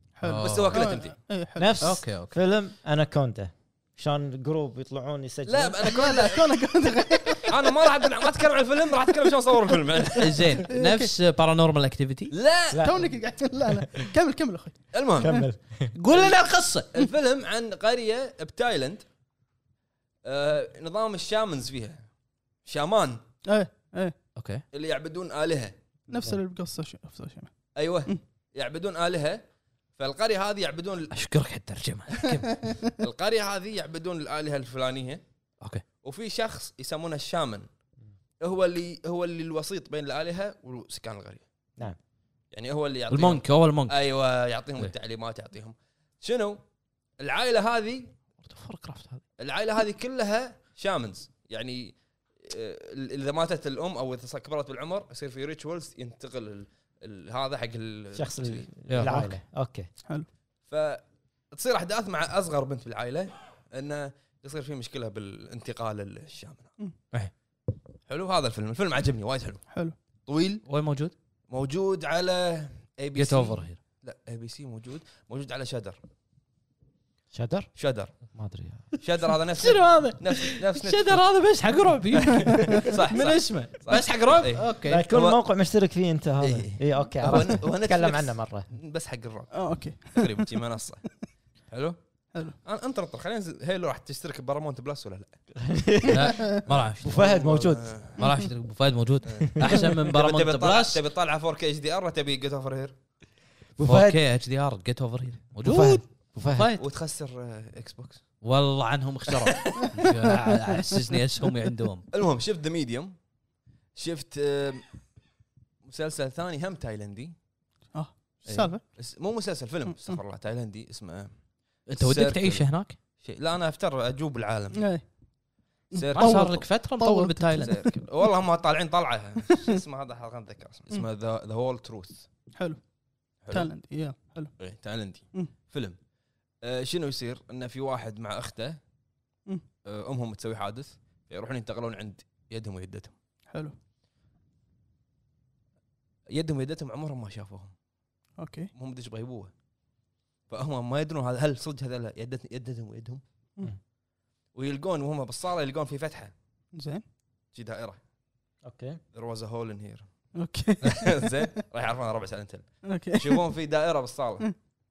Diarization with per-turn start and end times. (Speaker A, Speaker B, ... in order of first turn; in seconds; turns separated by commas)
Speaker A: 0.2-1.7, Speaker B: 0.2-1.0, Speaker C: 0.4-1.1, Speaker D: 1.6-5.9, Speaker B: 1.8-2.4, Speaker C: 5.5-6.6, Speaker A: 5.8-7.9, Speaker C: 7.5-10.5, Speaker B: 10.2-12.3, Speaker A: 10.7-11.1, Speaker C: 12.3-12.9, Speaker D: 12.7-13.9, Speaker A: 12.8-15.4, Speaker C: 14.9-15.5, Speaker D: 15.2-15.9, Speaker B: 15.9-16.9, Speaker C: 16.9-19.0, Speaker C: 20.2-22.0, Speaker C: 22.6-23.2, Speaker A: 23.4-24.2, Speaker B: 24.4-24.6, Speaker C: 24.7-25.7, Speaker D: 26.1-26.4, Speaker A: 26.1-28.2, Speaker C: 27.7-29.4, Speaker C: 30.0-31.1, Speaker B: 31.1-32.6, Speaker C: 32.9-35.2, Speaker C: 36.0-37.7, Speaker C: 38.4-41.4, Speaker C: 42.5-46.6, Speaker B: 43.1-44.0, Speaker C: 47.2-48.1, Speaker B: 48.4-49.2, Speaker C: 49.4-59.2, Speaker D: 58.1-59.9, Speaker B: 58.9-59.3, Speaker C: 60.7-66.7, Speaker C: 68.1-69.7, Speaker C: 70.3-70.6, Speaker B: 70.7-71.1, Speaker C: 71.5-76.0, Speaker B: 73.1-73.8, Speaker D: 77.3-77.7, Speaker C: 77.8-78.1, Speaker D: 78.3-78.9, Speaker C: 79.0-81.2, Speaker B: 79.6-85.0, Speaker C: 82.7-85.4, Speaker D: 84.9-88.7, Speaker C: 86.4-91.1, Speaker A: 89.5-90.5, Speaker C: 91.7-95.3, Speaker D: 95.5-98.0, Speaker B: 96.1-97.1, Speaker C: 97.0-98.2, Speaker B: 98.2-101.0, Speaker C: 99.3-103.0, Speaker D: 103.8-104.2, Speaker B: 103.8-106.8, Speaker D: 105.6-106.7, Speaker C: 106.8-108.2, Speaker B: 108.4-112.1, Speaker C: 112.1-113.2, Speaker C: 113.9-115.0, Speaker C: 115.8-117.3, Speaker A: 117.9-118.8, Speaker C: 118.5-121.3, Speaker B: 121.9-123.0, Speaker C: 122.0-124.8, Speaker A: 124.7-125.1, Speaker A: 125.9-127.9, Speaker C: 125.9-126.6, Speaker B: 126.1-127.8, Speaker C: 127.6-132.2, Speaker A: 132.6-132.8, Speaker C: 133.4-133.7, Speaker A: 133.5-134.5, Speaker C: 134.6-136.0, Speaker C: 136.6-138.8, Speaker C: 139.8-143.1, Speaker C: 146.3-147.7, Speaker A: 148.4-148.7, Speaker C: 148.7-149.5, Speaker C: 150.5-153.2, Speaker C: 154.5-156.3, Speaker A: 156.7-157.0, Speaker C: 157.5-158.0, Speaker D: 158.6-159.0, Speaker C: 159.1-164.5, Speaker A: 160.4-161.4, Speaker A: 162.8-163.5